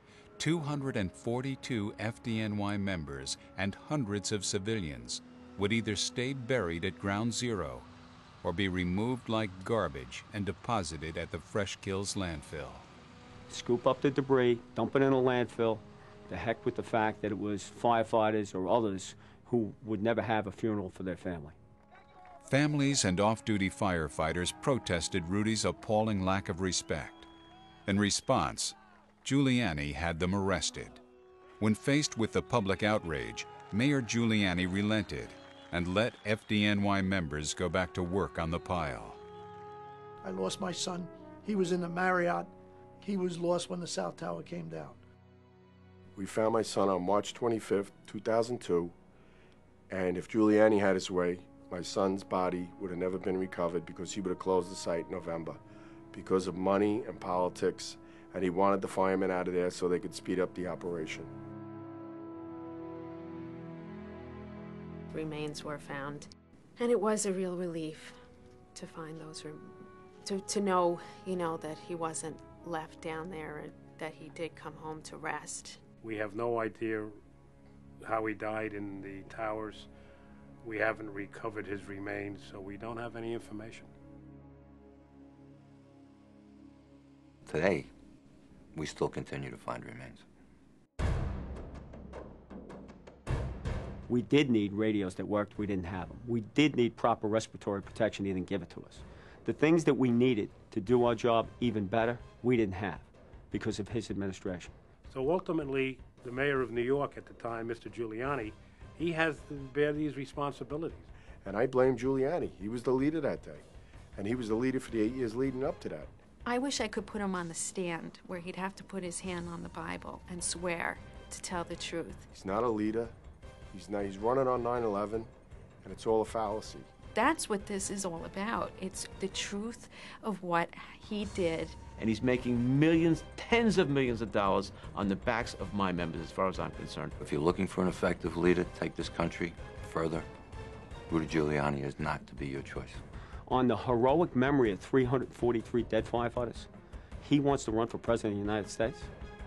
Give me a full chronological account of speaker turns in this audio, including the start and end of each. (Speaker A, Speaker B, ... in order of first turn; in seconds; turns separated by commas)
Speaker A: 0.4-7.9, Speaker A: 8.4-12.9, Speaker B: 13.5-21.6, Speaker A: 22.4-27.3, Speaker A: 27.9-31.0, Speaker A: 31.6-39.2, Speaker C: 40.2-42.5, Speaker C: 43.0-45.0, Speaker D: 46.1-48.9, Speaker D: 49.9-55.6, Speaker D: 56.1-61.3, Speaker E: 65.1-68.2, Speaker E: 68.7-75.8, Speaker F: 76.0-77.2, Speaker F: 78.0-79.9, Speaker F: 80.6-83.9, Speaker G: 87.5-87.9, Speaker G: 88.7-90.2, Speaker B: 94.1-104.7, Speaker F: 105.1-111.0, Speaker D: 111.4-113.6, Speaker D: 114.2-116.1, Speaker E: 116.4-122.2, Speaker D: 122.3-123.1, Speaker D: 123.7-125.3, Speaker D: 125.8-126.9, Speaker E: 127.1-131.8, Speaker H: 132.0-137.1, Speaker G: 137.2-140.3, Speaker G: 141.1-143.0, Speaker B: 143.5-146.7, Speaker B: 147.2-149.1